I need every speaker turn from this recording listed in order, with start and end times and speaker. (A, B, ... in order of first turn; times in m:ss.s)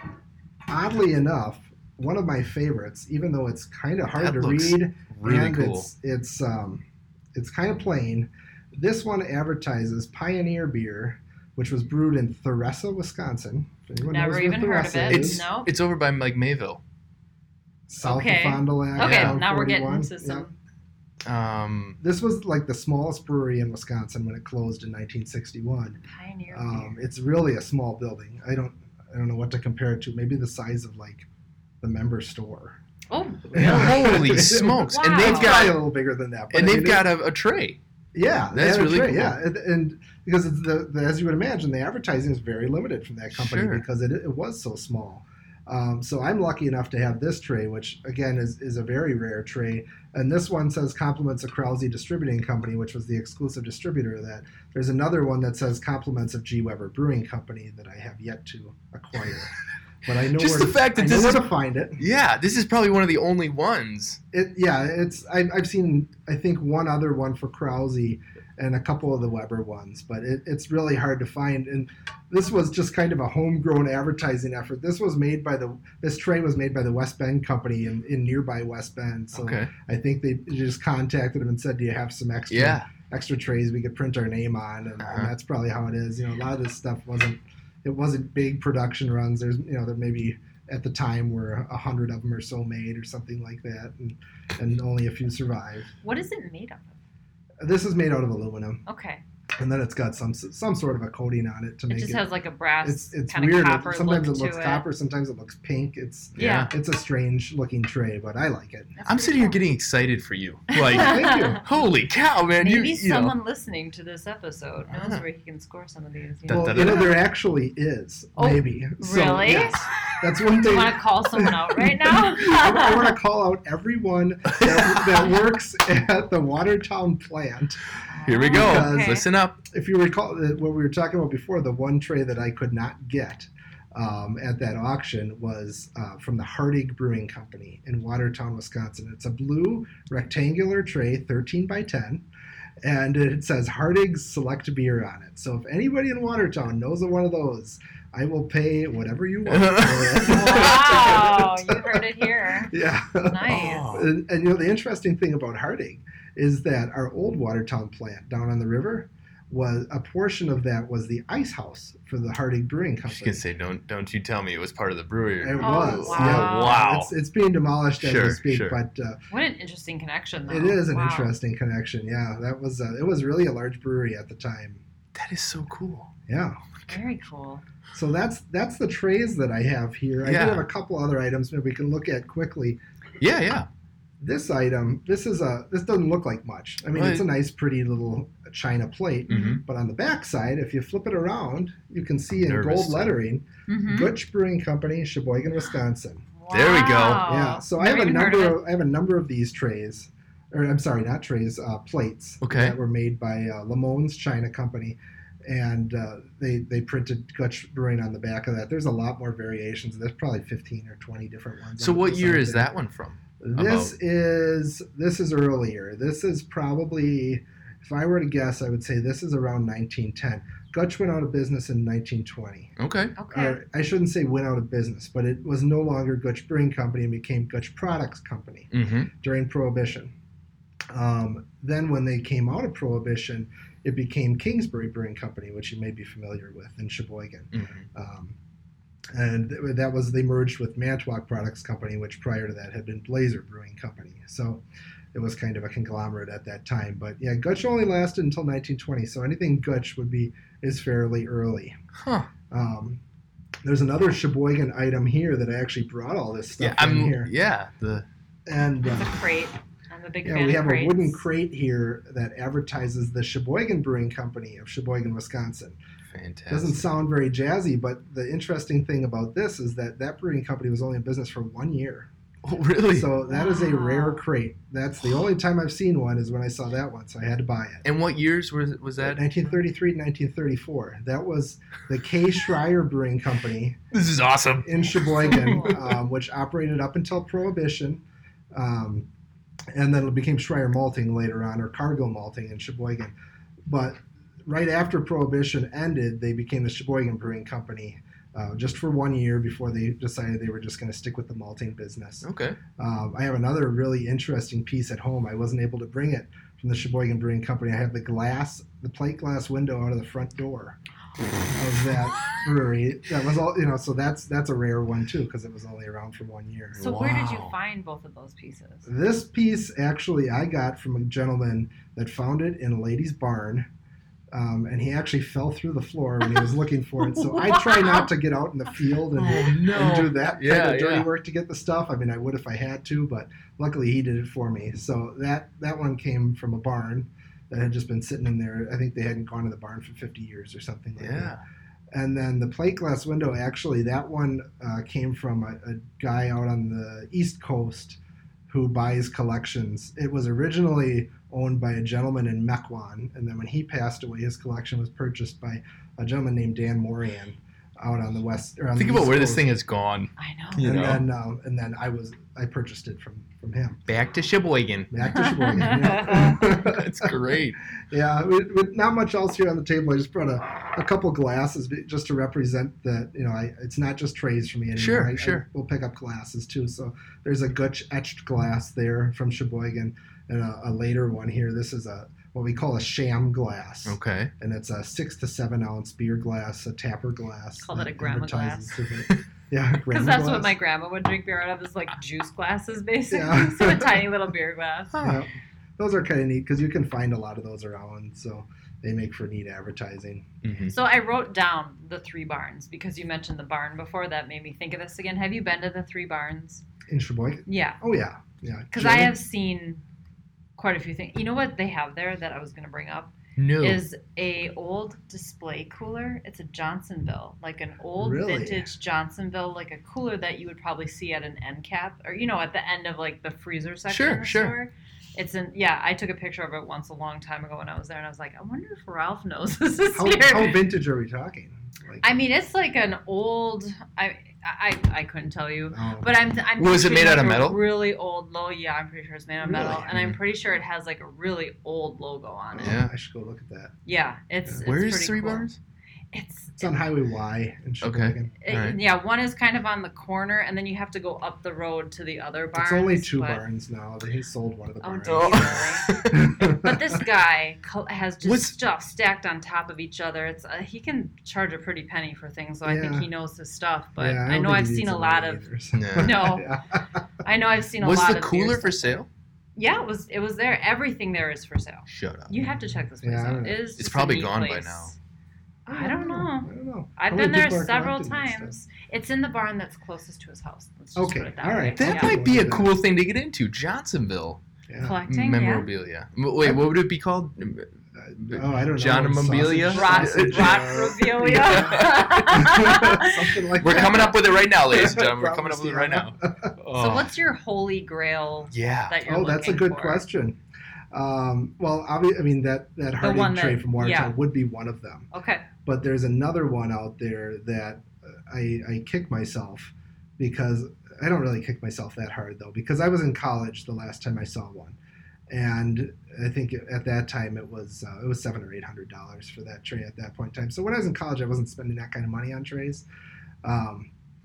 0:00.7-0:15.4 A
0:04.1-0:05.9 B
0:14.1-0:15.7 C
0:15.1-0:16.8 B
0:17.9-0:20.5 A
0:18.0-0:20.5 C
0:19.0-0:19.4 B
0:21.2-0:22.0 B
0:22.0-0:26.0 A
0:26.0-0:27.0 C
0:26.5-0:31.3 A
0:31.8-0:32.8 A
0:33.1-0:35.8 C
0:33.5-0:37.1 A
0:33.6-0:35.8 B
0:36.5-0:37.8 B
0:38.1-1:02.0 A
0:38.5-0:39.4 B
0:43.3-0:43.8 B
1:00.2-1:04.2 B
1:04.3-1:35.9 A
1:19.3-1:19.7 B
1:22.5-1:22.9 B
1:25.0-1:25.3 B
1:36.0-1:37.0 C
1:37.6-1:38.8 A
1:38.9-1:39.2 C
1:39.6-1:42.2 A
1:41.9-1:44.8 C
1:42.8-1:49.0 A
1:46.4-1:46.7 B
1:46.4-1:46.7 C
1:49.0-1:49.6 C
1:49.1-1:53.4 B
1:50.7-1:51.6 C
1:50.8-1:51.6 A
1:52.6-1:57.1 C
1:54.9-1:55.2 B
1:56.5-1:57.2 B
1:56.5-2:07.8 A
1:58.4-1:59.8 C
2:00.6-2:03.1 C
2:08.1-2:09.2 C
2:08.2-2:09.6 B
2:08.5-2:22.2 A
2:22.8-2:43.4 A
2:29.5-2:30.8 B
2:30.2-2:33.9 C
2:33.5-2:34.1 B
2:43.1-2:47.1 B
2:45.4-2:49.2 A
2:45.6-2:46.8 C
2:48.0-2:48.8 B
2:49.3-2:51.3 C
2:50.5-2:54.8 A
2:55.1-2:56.1 B
2:56.3-2:56.6 A
2:56.9-2:57.6 C
2:57.9-3:02.8 A
3:00.2-3:00.7 B
3:03.2-3:03.7 B
3:04.2-3:16.3 A
3:07.0-3:07.3 B
3:09.3-3:09.6 B
3:09.3-3:09.6 C
3:12.4-3:13.2 B
3:13.7-3:14.1 C
3:16.4-3:18.6 C
3:16.5-3:17.3 B
3:17.2-3:32.7 A
3:22.4-3:22.8 B
3:31.8-3:33.9 B
3:33.4-3:42.8 A
3:42.8-3:43.1 B
3:43.2-3:43.6 C
3:43.3-3:50.1 A
3:48.7-3:49.1 B
3:50.9-3:58.4 A
3:57.5-3:57.9 B
3:59.1-4:11.8 A
4:12.0-4:12.3 B
4:12.5-4:13.0 A
4:13.6-4:17.3 A
4:16.6-4:18.1 B
4:18.5-4:19.1 A
4:18.8-4:21.2 C
4:20.2-4:25.8 A
4:26.1-4:26.9 B
4:26.5-4:32.1 A
4:32.4-4:33.1 B
4:32.9-4:37.8 A
4:33.3-4:34.2 C
4:37.8-4:39.2 B
4:39.0-4:43.8 A
4:43.9-4:45.6 B
4:44.6-4:49.1 A
4:45.2-4:45.8 C
4:49.7-4:53.1 A
4:53.7-5:10.8 A
5:02.2-5:02.6 B
5:11.6-5:16.9 A
5:16.8-5:17.5 B
5:16.8-5:18.9 C
5:18.9-5:23.7 A
5:24.3-5:41.4 A
5:27.2-5:28.1 C
5:29.1-5:31.1 B
5:41.0-5:41.4 B
5:41.9-5:59.5 A
5:58.8-6:01.1 B
6:00.2-6:00.9 C
6:00.6-6:03.8 A
6:03.9-6:04.9 B
6:04.9-6:07.1 A
6:05.1-6:06.4 C
6:05.8-6:07.6 B
6:07.9-6:30.5 A
6:14.8-6:15.4 B
6:23.9-6:24.3 B
6:27.6-6:28.8 C
6:29.9-6:34.9 C
6:33.1-6:34.1 A
6:34.9-6:35.2 B
6:35.0-6:40.3 A
6:40.4-6:40.8 B
6:40.7-6:46.6 C
6:46.9-6:49.1 A
6:47.5-6:47.8 C
6:48.7-6:49.8 C
6:50.6-7:10.6 C
6:53.4-6:53.8 B
6:58.0-6:58.7 A
7:03.9-7:04.6 B
7:09.9-7:12.0 A
7:12.0-7:22.8 C
7:15.7-7:16.1 A
7:16.6-7:17.6 B
7:19.4-7:20.0 A
7:22.5-7:23.8 A
7:22.6-7:22.9 B
7:23.9-7:25.5 C
7:24.6-7:25.6 B
7:26.1-7:26.8 C
7:26.6-7:28.3 A
7:27.8-7:28.8 B
7:28.4-7:33.4 C
7:32.6-7:37.0 A
7:34.8-7:46.6 C
7:35.1-7:36.3 B
7:38.2-7:38.6 B
7:42.6-7:43.1 A
7:44.0-7:47.0 A
7:45.7-7:46.3 B
7:47.2-7:49.0 C
7:47.8-7:49.1 B
7:49.6-7:55.0 C
7:51.9-7:52.4 B
7:53.0-7:53.6 A
7:53.8-7:54.9 B
7:55.7-8:02.2 C
7:55.7-7:58.6 A
8:01.0-8:02.8 A
8:01.8-8:04.4 B
8:04.7-8:05.0 A
8:04.8-8:05.7 C
8:05.1-8:12.8 B
8:08.0-8:16.5 A
8:09.7-8:14.3 C
8:13.6-8:17.1 B
8:16.7-8:20.0 C
8:18.5-8:19.0 B
8:19.0-8:20.4 A
8:20.9-8:25.1 A
8:23.0-8:24.1 C
8:25.1-8:25.5 C
8:25.6-8:34.8 A
8:35.3-8:42.9 A
8:43.4-8:43.9 A